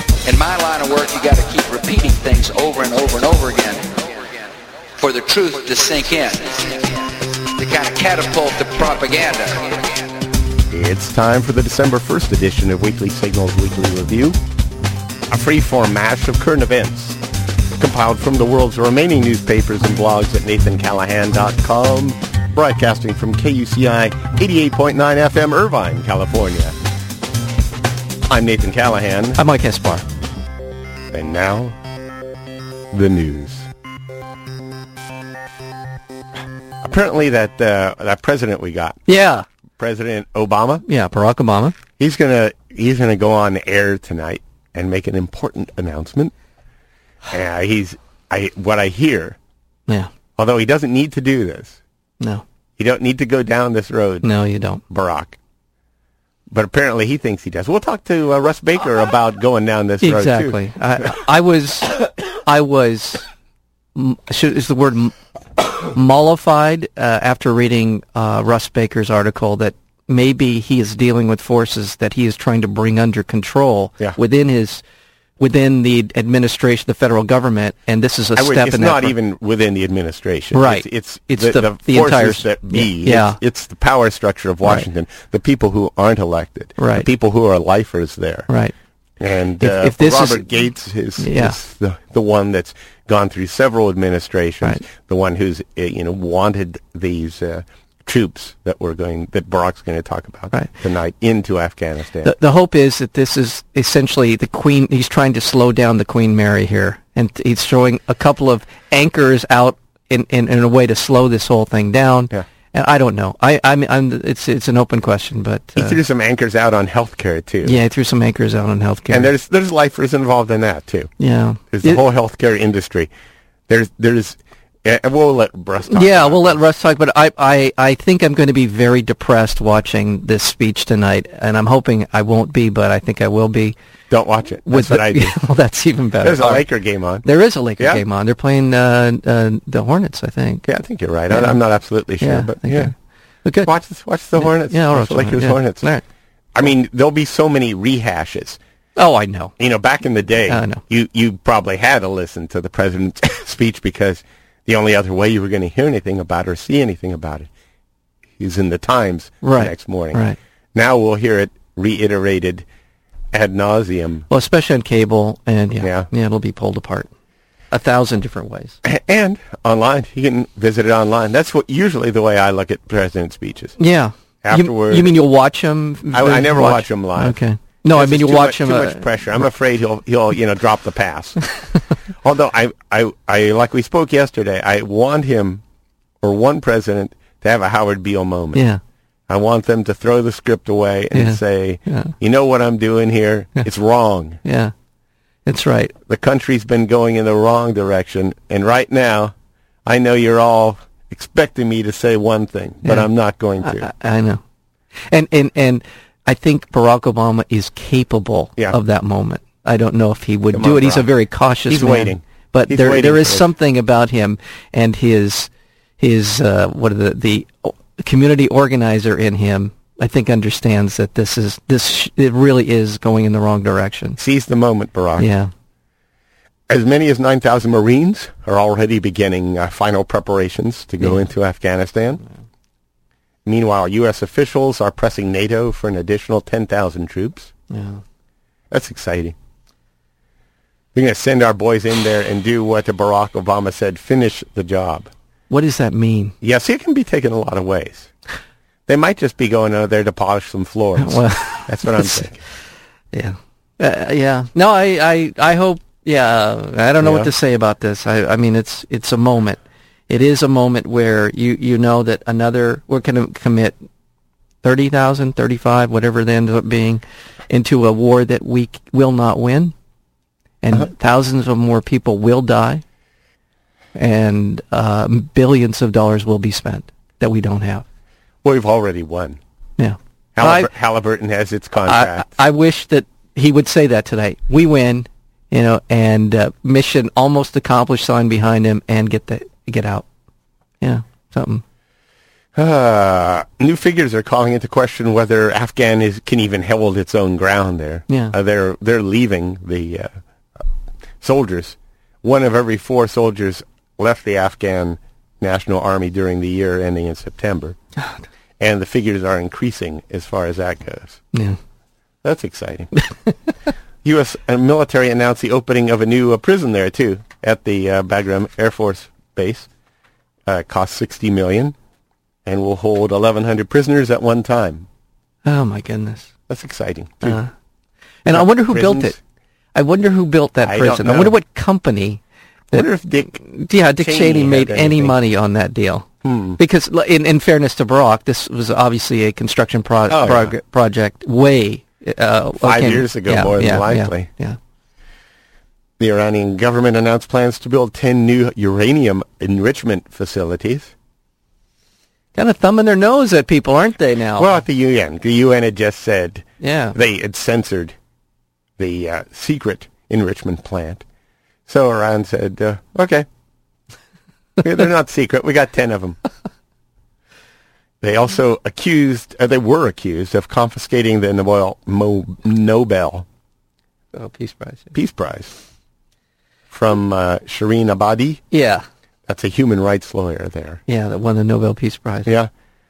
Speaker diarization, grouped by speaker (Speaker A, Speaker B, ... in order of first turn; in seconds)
Speaker A: 0.2-4.5, 5.0-10.1
Speaker B: 10.7-14.4, 15.3-17.2, 17.8-26.8, 28.3-29.4, 31.1-31.8, 32.9-33.7, 36.8-39.0, 39.8-40.9, 42.0-46.3, 47.3-49.4, 50.4-51.8, 52.8-54.3, 54.9-55.4, 56.5-60.6, 78.4-88.5, 89.2-102.3, 115.8-117.8, 119.1-121.1, 121.7-123.1, 123.7-126.6, 134.1-135.4, 136.2-137.2, 137.8-138.0, 140.7-142.9, 143.6-145.9, 146.6-148.6, 149.6-157.5, 158.4-160.2, 160.8-162.7, 163.3-164.3, 165.8-166.1, 168.8-173.8, 174.4-175.2, 176.1-177.4, 177.9-181.4, 182.2-185.6, 186.2-188.6, 189.3-194.4, 196.1-199.3, 199.8-203.9, 210.5-211.1, 211.7-213.5, 224.2-225.3, 226.7-232.2, 233.4-237.5, 238.7-239.3, 240.9-245.1, 246.4-248.1, 248.9-252.4, 257.0-257.3, 278.4-279.4, 280.4-282.3, 292.6-300.1, 301.2-307.8, 308.6-311.2, 312.2-313.0, 314.0-319.7, 320.5-321.8, 322.5-324.9, 326.5-327.4, 328.3-329.2, 330.6-331.3, 332.7-333.4, 334.0-335.2, 336.2-336.6, 340.1-340.5, 342.6-344.3, 346.0-350.9, 354.4-358.0, 358.8-361.0, 361.7-363.3, 364.6-366.2, 368.0-373.3, 374.9-375.5, 376.7-378.4, 379.3-380.8
Speaker C: 29.4-30.1, 39.1-39.5, 40.9-41.8, 54.2-54.8, 60.0-63.2, 64.0-65.2, 65.7-74.8, 75.4-79.2, 80.5-83.4, 86.8-87.1, 89.6-90.5, 91.2-91.6, 102.2-116.0, 117.6-119.3, 121.2-122.0, 125.9-133.8, 134.7-136.7, 137.2-140.7, 141.3-141.6, 142.2-143.7, 144.4-146.0, 149.0-149.6, 150.5-150.8, 159.4-160.4, 164.3-167.1, 167.7-168.8, 173.8-179.0, 188.6-188.8, 191.1-192.1, 194.4-194.7, 195.5-195.9, 202.8-203.1, 203.6-204.4, 205.1-224.2, 225.2-225.5, 237.7-238.0, 245.5-246.4, 251.0-252.2, 253.1-263.8, 264.6-269.7, 270.6-272.8, 273.9-277.9, 279.8-280.7, 281.9-290.1, 290.8-291.6, 298.1-298.4, 311.3-311.6, 325.4-326.3, 327.2-327.5, 328.2-329.2, 329.8-344.6, 352.4-354.6, 356.6-357.0, 374.1-374.9, 378.5-378.9, 380.9-382.3